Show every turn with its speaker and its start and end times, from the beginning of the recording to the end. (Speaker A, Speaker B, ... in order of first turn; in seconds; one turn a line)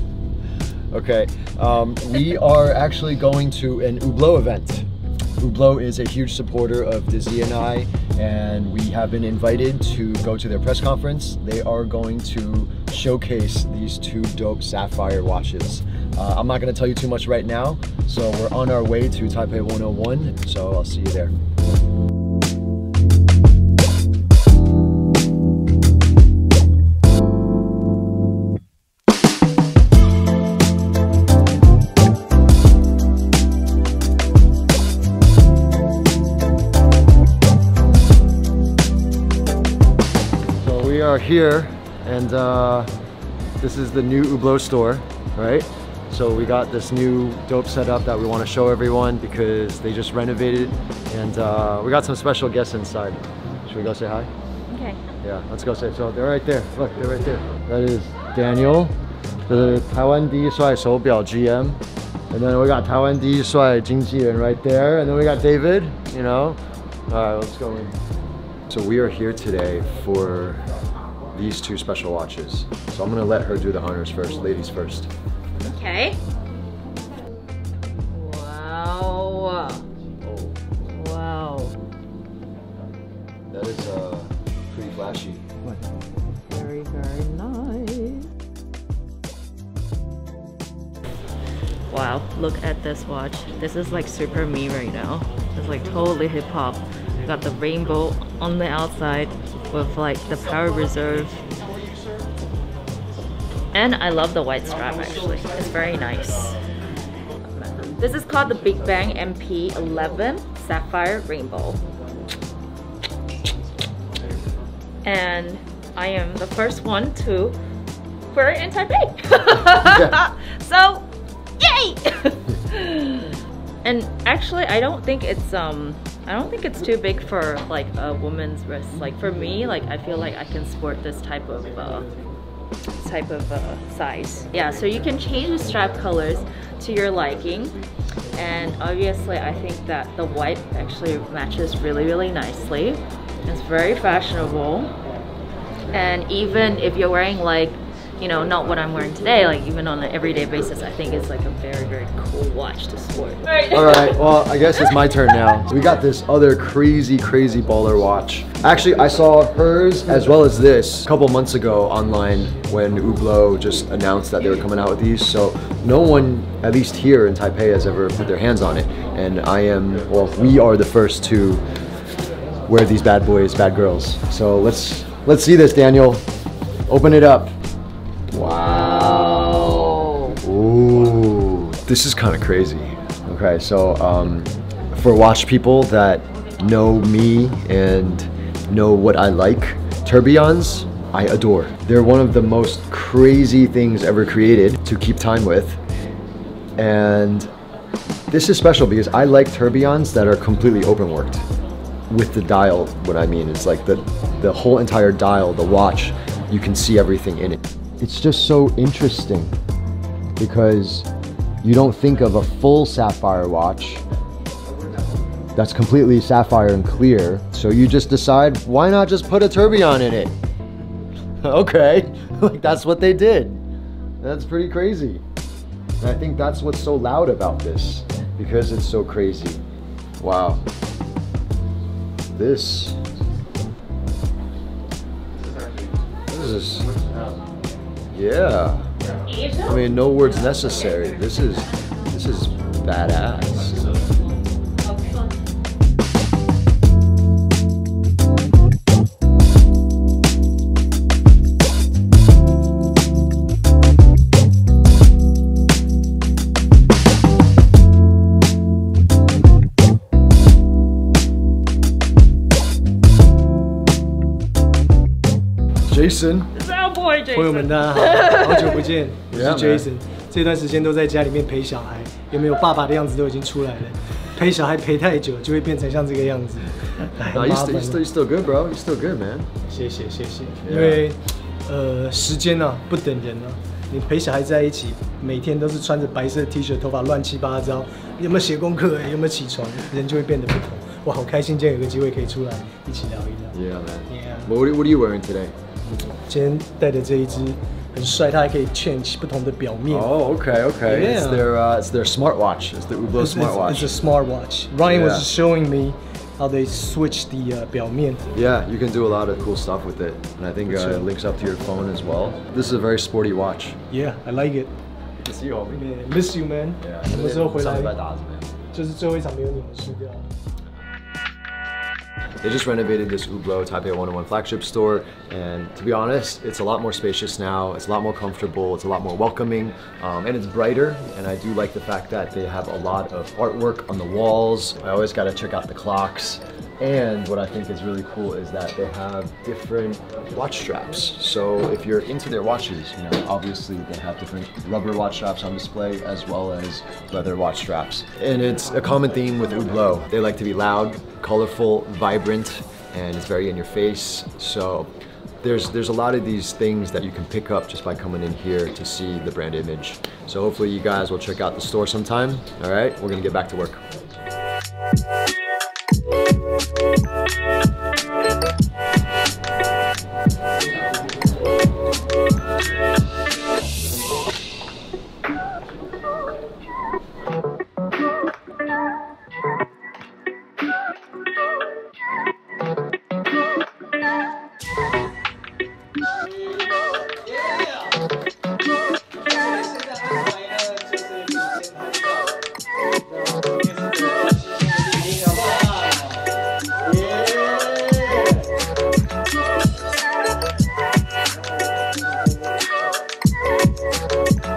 Speaker A: 0.9-4.9
Speaker A: 5.4-21.3
Speaker A: 40.6-42.9
Speaker A: 43.6-54.3
Speaker B: 54.7-55.0
Speaker A: 55.2-58.9
Speaker A: 59.5-66.6
Speaker A: 67.1-67.9
Speaker A: 68.7-70.6
Speaker A: 71.3-75.1
Speaker B: 75.6-76.2
Speaker B: 78.1-79.8
Speaker A: 80.2-80.8
Speaker B: 80.8-81.8
Speaker A: 83.5-85.4
Speaker B: 86.4-88.3
Speaker B: 91.9-101.4
Speaker B: 103.7-106.6
Speaker B: 107.5-111.8
Speaker B: 115.0-117.5
Speaker B: 118.3-121.1
Speaker A: 119.7-120.2
Speaker B: 121.6-132.1
Speaker B: 133.0-137.7
Speaker B: 138.3-144.9
Speaker B: 145.9-153.7
Speaker A: 153.7-171.6
Speaker A: 172.7-176.2
Speaker A: 176.9-177.5
Speaker A: 178.3-179.8
Speaker B: 178.4-180.4
Speaker A: 180.4-195.8
Speaker A: 196.8-197.5
Speaker A: 198.3-201.4
Speaker A: 202.1-209.5
Speaker A: 210.4-211.1
Speaker A: 211.6-214.0
Speaker A: 215.6-220.3
Speaker A: 221.4-223.6
Speaker A: 224.2-225.2
Speaker A: 226.0-229.6
Speaker A: 230.2-230.6
Speaker A: 232.3-233.0
Speaker A: 236.3-237.0
Speaker A: 238.1-238.9
Speaker B: 239.3-239.7
Speaker A: 239.6-243.8
Speaker A: 265.9-266.5
Speaker B: 266.5-268.9
Speaker C: 267.3-278.0
Speaker A: 269.3-269.9
Speaker A: 277.3-279.5
Speaker C: 279.7-293.6
Speaker A: 280.6-281.0
Speaker A: 293.5-295.5
Speaker C: 294.1-294.5
Speaker C: 296.3-300.1
Speaker A: 299.9-304.0
Speaker C: 300.9-301.5
Speaker C: 303.1-308.2
Speaker A: 304.8-305.3
Speaker A: 308.3-313.8
Speaker C: 310.7-311.1
Speaker C: 313.9-314.7
Speaker A: 315.2-315.9
Speaker C: 315.7-318.0
Speaker A: 316.8-318.5
Speaker C: 318.7-320.2
Speaker A: 322.4-354.9
Speaker A: 355.4-363.8
Speaker C: 386.4-388.0
Speaker C: 389.2-392.4
Speaker C: 393.1-398.4